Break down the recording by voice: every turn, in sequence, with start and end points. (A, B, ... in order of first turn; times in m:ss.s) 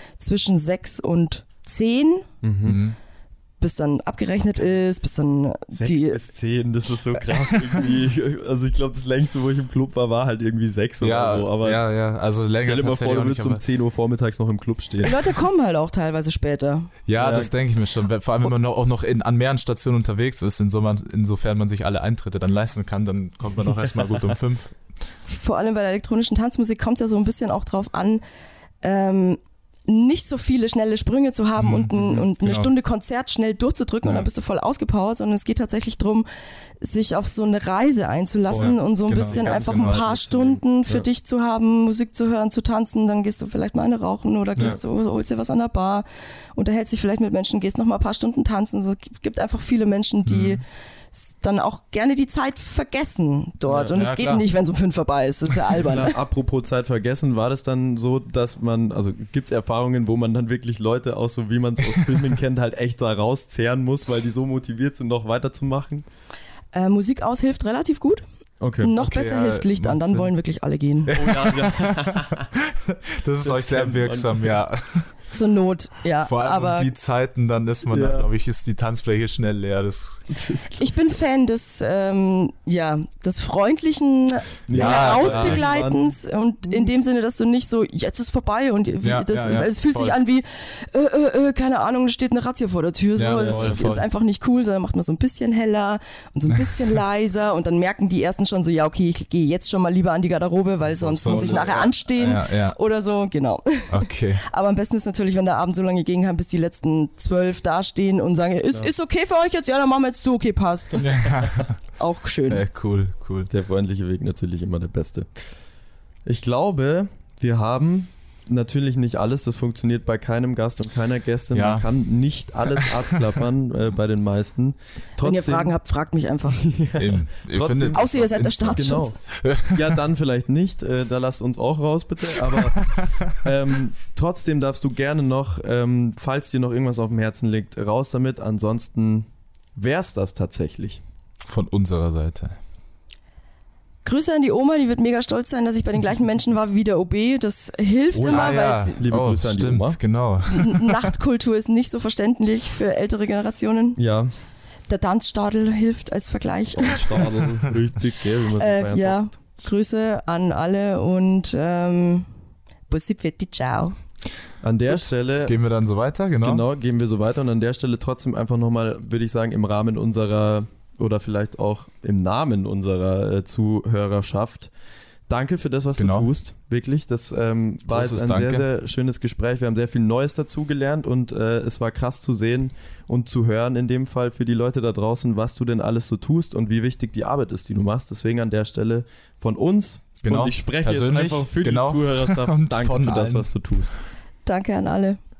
0:00.2-0:02.3 A
0:02.4-0:02.8 B
0:02.6-0:03.0 C
0:03.6-0:06.2 A
0:05.7-0:11.8 B
0:11.0-0:13.6 C
0:12.6-0:15.2 B
0:15.0-0:16.9 A
0:17.1-0:24.8 C
0:17.2-0:17.5 B
0:25.3-0:28.2 A
0:28.8-0:36.3 A
0:31.6-0:32.7 C
0:36.8-0:50.6 A
0:38.5-0:40.0 C
0:38.5-0:41.1 B
0:50.3-0:50.6 C
0:51.1-0:56.1 A
0:53.7-0:54.4 C
0:55.9-1:06.0 B
1:06.7-1:08.2 A
1:08.6-1:08.9 B
1:08.8-1:11.2 A
1:09.0-1:10.3 C
1:11.1-1:15.2 C
1:11.2-1:12.5 B
1:13.4-1:14.6 B
1:15.3-1:16.9 A
1:16.2-1:20.2 C
1:17.9-1:18.3 B
1:20.3-1:20.9 B
1:20.8-1:51.3 A
1:24.7-1:26.2 B
1:24.7-1:25.7 C
1:29.0-1:30.2 C
1:33.2-1:34.0 C
1:33.2-1:33.8 B
1:36.5-1:37.0 C
1:41.0-1:42.8 C
1:41.0-1:42.0 B
1:43.9-1:44.4 C
1:51.0-1:51.8 C
1:52.0-1:52.6 A
1:52.5-1:53.5 C
1:53.5-1:55.5 B
1:56.2-2:05.7 B
2:01.5-2:01.9 C
2:02.8-2:03.1 C
2:05.2-2:06.7 A
2:06.6-2:21.0 B
2:07.0-2:10.0 C
2:07.9-2:09.2 A
2:12.7-2:13.1 C
2:21.5-2:22.6 C
2:24.0-2:29.0 A
2:28.1-2:31.1 C
2:29.0-2:30.0 B
2:30.5-2:34.0 A
2:34.0-2:34.3 B
2:34.9-2:37.2 A
2:36.8-2:39.3 B
2:38.6-2:42.3 A
2:42.9-2:44.0 A
2:44.6-2:45.6 B
2:45.4-2:46.6 C
2:46.4-2:54.7 B
2:55.3-3:14.0 B
2:56.0-2:56.3 C
2:57.9-2:58.7 C
3:10.2-3:13.9 C
3:14.5-3:15.2 A